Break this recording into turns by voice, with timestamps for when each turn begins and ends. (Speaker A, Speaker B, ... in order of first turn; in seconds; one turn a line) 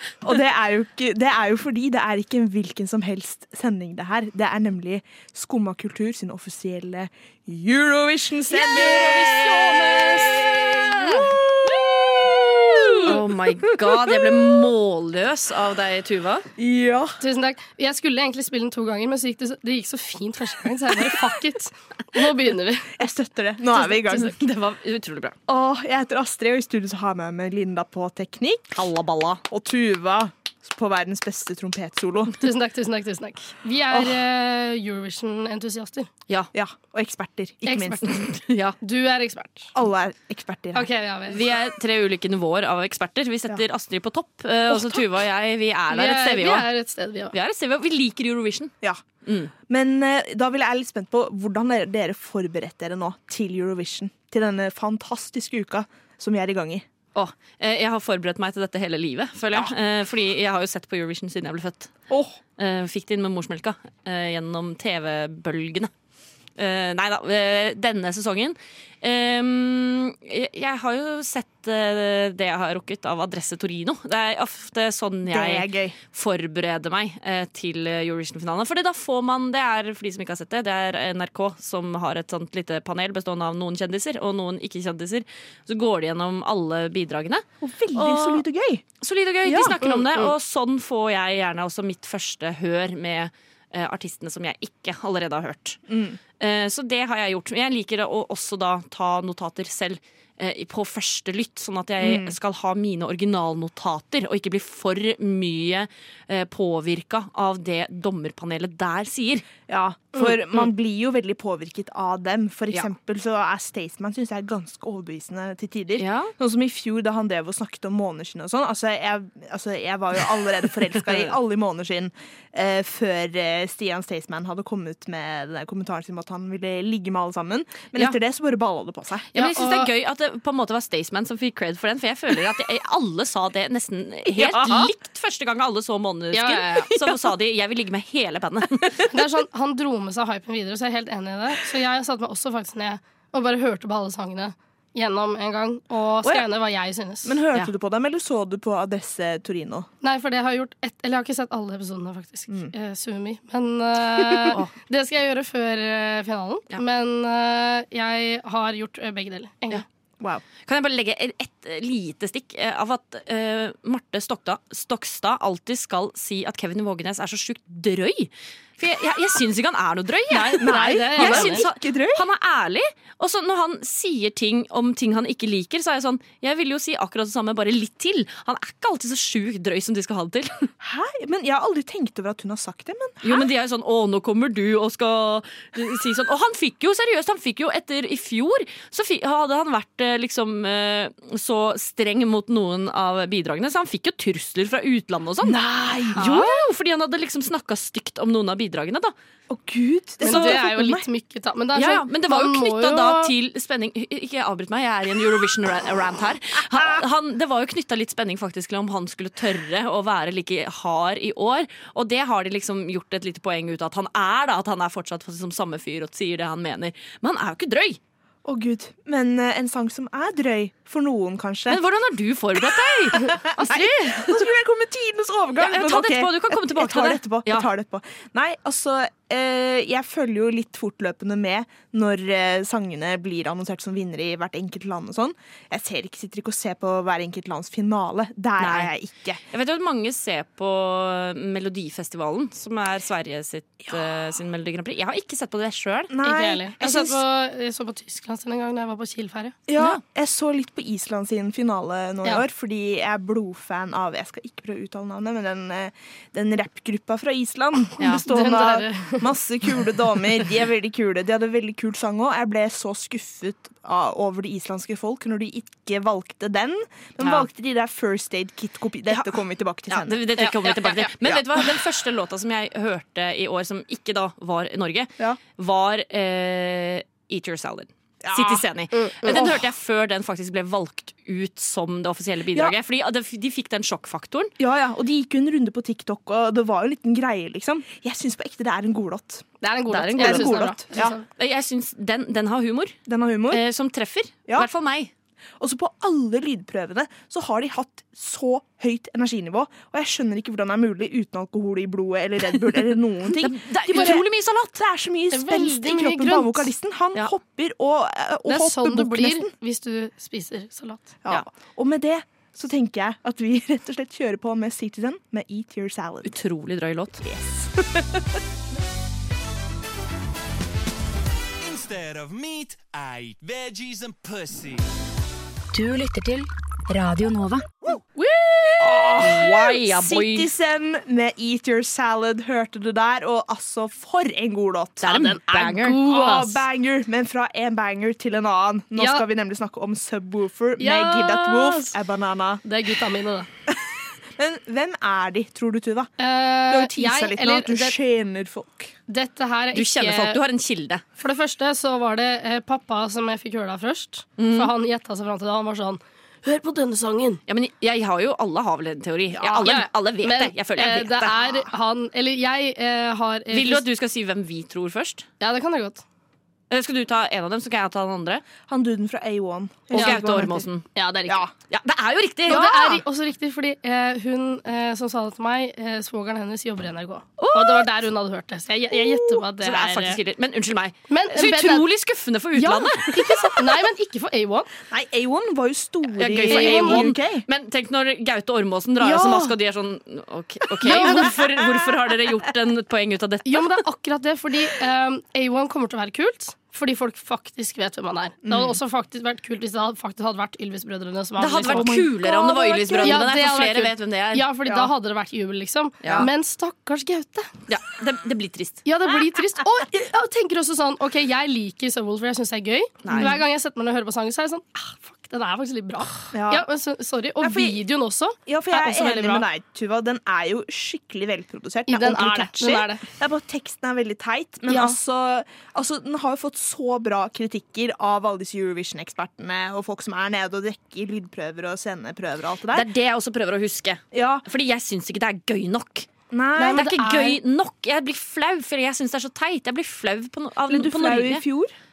Speaker A: 0.2-14.5
Speaker B: 8.5-11.7
Speaker B: 12.7-16.5
Speaker A: 16.6-17.2
Speaker C: 17.2-23.0
Speaker A: 22.9-24.4
Speaker B: 24.1-25.4
Speaker A: 25.5-28.8
Speaker B: 28.7-29.4
Speaker A: 29.4-32.4
Speaker C: 32.4-36.1
Speaker A: 36.5-38.2
Speaker C: 37.6-38.1
Speaker B: 38.0-38.8
Speaker C: 38.8-39.7
Speaker A: 39.7-40.9
Speaker C: 40.7-41.4
Speaker B: 41.3-46.7
Speaker C: 45.9-47.3
Speaker B: 47.3-48.7
Speaker B: 49.2-49.5
Speaker A: 49.7-56.9
Speaker B: 57.1-61.9
Speaker A: 62.1-62.4
Speaker B: 62.6-65.9
Speaker B: 66.6-88.4
Speaker A: 75.3-76.0
Speaker A: 87.6-88.8
Speaker B: 89.0-95.8
Speaker A: 89.5-89.8
Speaker C: 89.8-90.3
Speaker A: 95.9-96.2
Speaker B: 96.4-109.5
Speaker A: 102.0-102.4
Speaker A: 109.7-129.3
Speaker B: 116.0-116.3
Speaker B: 129.3-139.1
Speaker C: 129.3-129.9
Speaker C: 134.5-134.9
Speaker C: 136.3-137.0
Speaker C: 139.1-147.4
Speaker A: 147.2-149.9
Speaker C: 150.0-159.8
Speaker B: 160.7-180.7
Speaker A: 170.3-172.3
Speaker C: 170.4-171.7
Speaker A: 180.8-183.5
Speaker B: 183.2-195.6
Speaker A: 195.4-196.2
Speaker C: 196.2-196.5
Speaker B: 196.2-199.1
Speaker A: 199.5-201.1
Speaker C: 200.2-203.3
Speaker B: 200.3-200.6
Speaker B: 201.7-218.0
Speaker A: 218.4-221.8
Speaker B: 221.7-224.5
Speaker A: 222.6-239.4
Speaker B: 225.6-227.7
Speaker B: 238.6-238.9
Speaker B: 239.5-246.1
Speaker A: 246.1-247.2
Speaker C: 246.2-249.6
Speaker A: 249.7-270.2
Speaker C: 258.0-259.2
Speaker B: 267.2-267.5
Speaker B: 269.9-284.5
Speaker C: 270.4-271.1
Speaker A: 271.2-271.7
Speaker A: 278.2-278.6
Speaker C: 278.9-279.3
Speaker A: 279.2-279.6
Speaker A: 284.6-289.5
Speaker C: 289.6-291.2
Speaker B: 289.9-290.6
Speaker A: 290.2-291.1
Speaker B: 291.2-292.9
Speaker A: 293.1-293.6
Speaker B: 293.5-295.1
Speaker A: 295.6-309.5
Speaker B: 303.3-304.7
Speaker C: 305.3-306.7
Speaker C: 308.5-311.1
Speaker A: 311.2-316.4
Speaker B: 316.2-317.2
Speaker A: 317.2-318.4
Speaker D: 321.6-324.8
Speaker E: 325.7-327.6
Speaker C: 328.3-329.1
Speaker A: 328.8-342.6
Speaker B: 329.2-330.5
Speaker B: 335.0-336.0
Speaker C: 335.1-336.6
Speaker C: 339.0-339.2
Speaker C: 340.8-342.0
Speaker C: 342.6-343.5
Speaker A: 343.7-346.1
Speaker C: 346.2-348.0
Speaker A: 346.7-348.9
Speaker C: 349.1-350.4
Speaker B: 349.7-351.0
Speaker C: 351.2-357.4
Speaker B: 354.4-354.7
Speaker B: 357.5-361.3
Speaker A: 359.4-359.7
Speaker C: 359.6-363.9
Speaker B: 363.5-365.3
Speaker C: 365.4-366.0
Speaker B: 366.7-368.5
Speaker A: 368.7-370.7
Speaker B: 369.9-370.9
Speaker C: 369.9-371.4
Speaker B: 371.6-372.7
Speaker A: 372.5-373.0
Speaker C: 372.5-380.2
Speaker B: 377.4-377.9
Speaker A: 379.0-379.4
Speaker B: 379.6-383.6
Speaker C: 381.1-381.9
Speaker C: 382.6-384.7
Speaker A: 384.9-387.4
Speaker B: 386.2-393.8
Speaker C: 386.4-387.1
Speaker A: 389.0-389.6
Speaker C: 390.8-391.3
Speaker A: 390.9-391.9
Speaker C: 393.4-402.0
Speaker A: 398.4-398.8
Speaker B: 401.4-404.5
Speaker A: 401.5-403.3
Speaker C: 403.0-407.5
Speaker A: 404.7-404.9
Speaker B: 406.0-406.3
Speaker A: 406.0-406.3
Speaker B: 407.7-408.8
Speaker C: 408.9-419.5
Speaker B: 413.0-413.4
Speaker A: 413.1-413.4
Speaker A: 416.3-416.7
Speaker A: 417.4-417.8
Speaker A: 418.5-432.9
Speaker C: 421.9-423.0
Speaker B: 432.7-436.1
Speaker A: 434.1-434.4
Speaker A: 436.3-437.3
Speaker C: 436.6-437.4
Speaker B: 436.7-441.4
Speaker A: 440.7-441.7